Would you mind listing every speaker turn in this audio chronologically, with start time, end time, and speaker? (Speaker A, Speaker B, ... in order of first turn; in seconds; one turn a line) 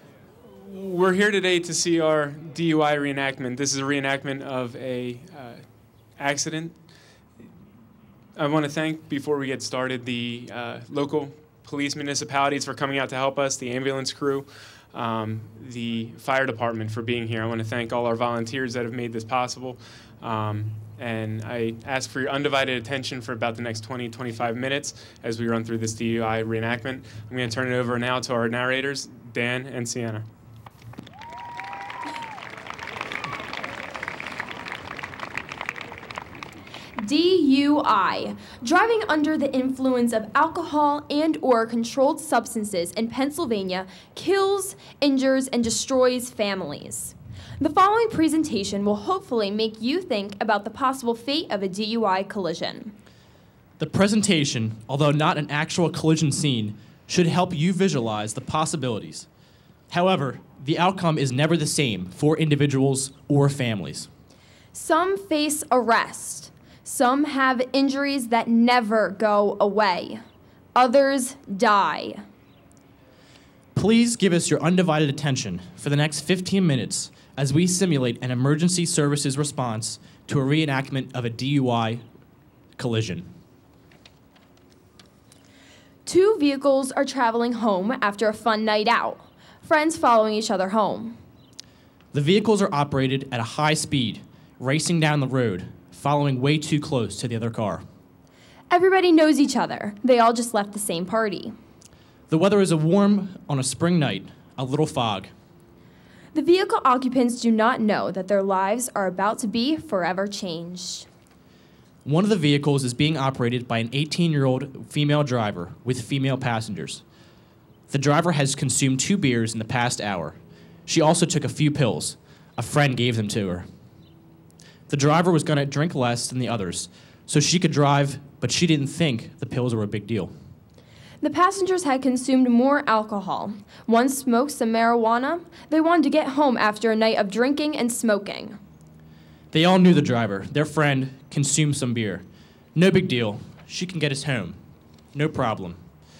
Speaker A: 0.5-6.8
Speaker A: 8.3-30.2
Speaker B: 37.0-52.9
Speaker C: 53.8-59.3
Speaker C: 59.9-64.1
Speaker B: 64.7-70.2
Speaker B: 70.8-72.2
Speaker C: 73.7-82.0
Speaker C: 82.8-83.3
Speaker B: 86.0-91.2
Speaker C: 92.1-97.8
Speaker B: 98.7-101.5
Speaker C: 102.3-105.3
Speaker B: 106.3-111.1
Speaker C: 112.0-117.0
Speaker C: 117.9-123.7
Speaker C: 124.9-130.3
Speaker B: 131.2-138.6
Speaker C: 139.5-144.6
Speaker C: 145.1-145.8